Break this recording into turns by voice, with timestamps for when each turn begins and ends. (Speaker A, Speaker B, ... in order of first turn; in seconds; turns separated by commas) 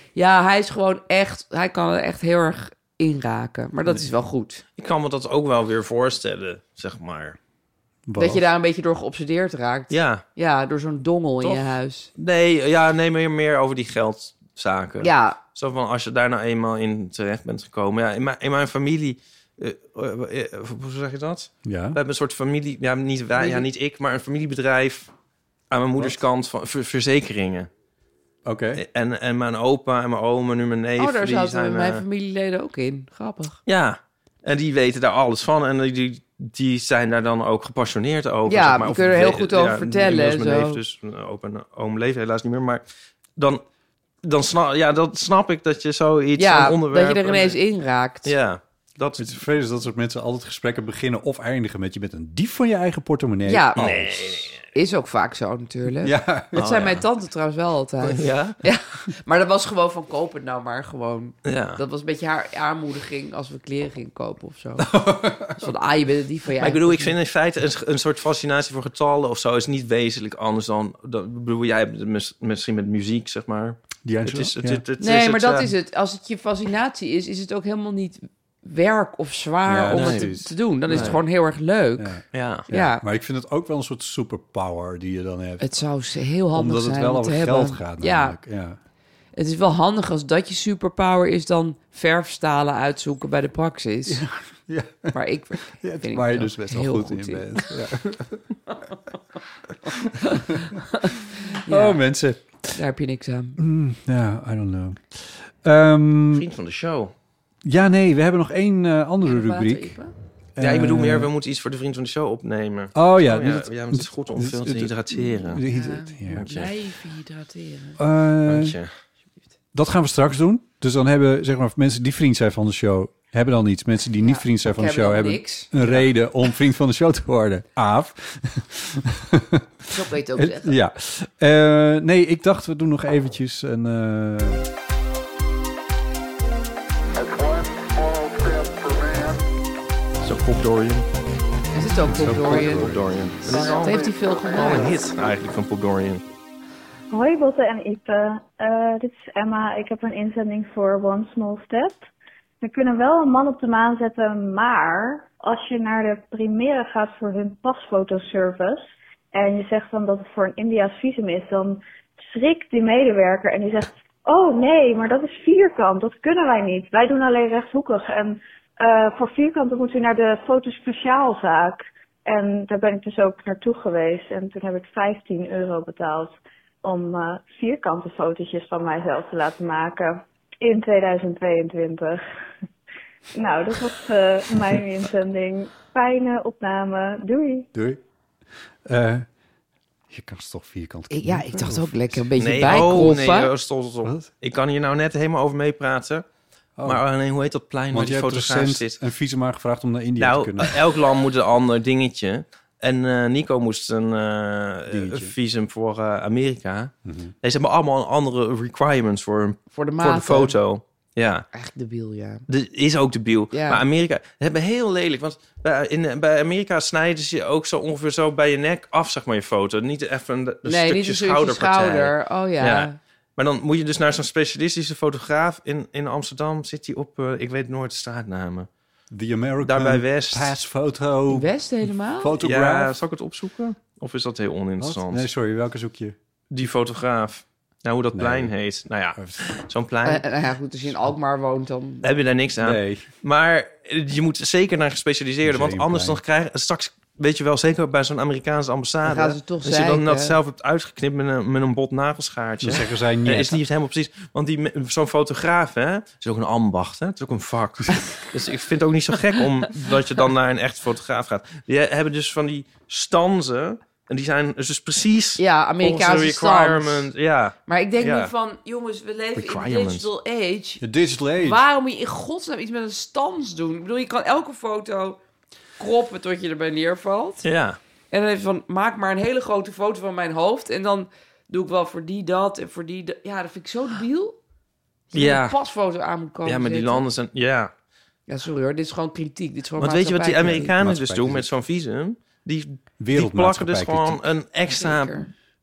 Speaker A: 0.1-4.6, Speaker B: 4.8-7.4, Speaker C: 8.1-8.4, Speaker A: 8.2-12.1, Speaker B: 9.9-10.2, Speaker B: 11.4-25.1, Speaker A: 15.0-15.4, Speaker C: 21.6-22.0, Speaker A: 23.4-23.6, Speaker B: 25.7-27.7, Speaker C: 28.4-28.8, Speaker B: 28.8-32.0, Speaker A: 31.0-33.6, Speaker B: 33.6-42.9, Speaker A: 38.5-40.8, Speaker B: 43.4-43.6, Speaker B: 44.2-47.6, Speaker A: 46.4-48.3, Speaker B: 48.2-49.3, Speaker C: 49.2-54.5, Speaker A: 53.5-53.8, Speaker B: 53.8-54.6, Speaker A: 54.7-67.1, Speaker C: 56.0-56.5, Speaker B: 56.5-57.0, Speaker B: 58.0-58.6, Speaker B: 61.4-61.8, Speaker C: 64.8-65.6, Speaker B: 66.6-75.7, Speaker C: 74.0-74.8, Speaker A: 75.0-83.0, Speaker C: 79.7-81.2, Speaker B: 79.9-80.3, Speaker B: 80.9-81.2, Speaker C: 82.0-85.8, Speaker B: 82.3-82.7, Speaker A: 85.6-88.4, Speaker C: 86.5-88.8, Speaker A: 89.3-94.2, Speaker C: 94.1-98.5, Speaker A: 95.1-97.6, Speaker C: 99.9-100.8, Speaker A: 100.2-102.0, Speaker C: 101.4-102.8, Speaker A: 102.7-103.6, Speaker C: 103.6-106.5, Speaker B: 106.3-107.1, Speaker C: 107.6-110.0, Speaker A: 109.2-110.1, Speaker C: 110.5-111.3, Speaker B: 110.6-115.6, Speaker C: 112.9-116.5, Speaker A: 115.7-118.0, Speaker B: 116.3-116.7, Speaker C: 118.0-118.8, Speaker B: 118.5-118.9, Speaker C: 119.7-134.7, Speaker A: 124.2-125.7, Speaker A: 129.9-130.7, Speaker B: 140.2-141.1, Speaker A: 141.7-142.9, Speaker C: 142.0-143.1, Speaker B: 142.5-146.2, Speaker A: 143.5-144.9, Speaker D: 147.1-152.0, Speaker D: 152.6-182.2, Speaker D: 183.3-187.7, Speaker C: 187.7-188.0, Speaker C: 188.8-189.3, Speaker C: 190.1-192.8, Speaker A: 191.1-193.5, Speaker B: 192.4-196.2, Speaker C: 194.0-194.3, Speaker C: 196.8-197.0, Speaker B: 196.8-199.0, Speaker C: 197.9-200.8, Speaker B: 200.2-211.5, Speaker C: 204.9-205.3, Speaker C: 207.0-207.3, Speaker A: 209.7-210.6, Speaker A: 211.5-212.4, Speaker B: 212.5-228.7, Speaker A: 213.5-213.8, Speaker A: 220.6-223.0, Speaker C: 229.1-233.0, Speaker B: 229.6-230.5, Speaker A: 231.3-232.3, Speaker B: 232.4-235.2, Speaker C: 234.8-236.1, Speaker B: 236.5-240.2, Speaker C: 238.1-238.5, Speaker C: 239.2-239.5, Speaker A: 240.0-242.1, Speaker B: 242.0-268.3, Speaker C: 242.6-243.1, Speaker C: 245.4-246.2, Speaker A: 249.0-250.4, Speaker C: 252.6-253.6, Speaker A: 265.4-267.1, Speaker A: 267.7-270.8, Speaker B: 269.4-270.1, Speaker C: 270.8-271.6, Speaker A: 271.4-275.2, Speaker A: 275.8-277.4, Speaker B: 277.4-277.8, Speaker A: 278.1-284.4, Speaker A: 285.1-287.0, Speaker B: 285.1-285.6, Speaker B: 286.4-287.7, Speaker A: 288.3-290.7, Speaker B: 289.8-295.2, Speaker C: 290.6-291.5, Speaker C: 293.0-294.2, Speaker A: 294.7-295.3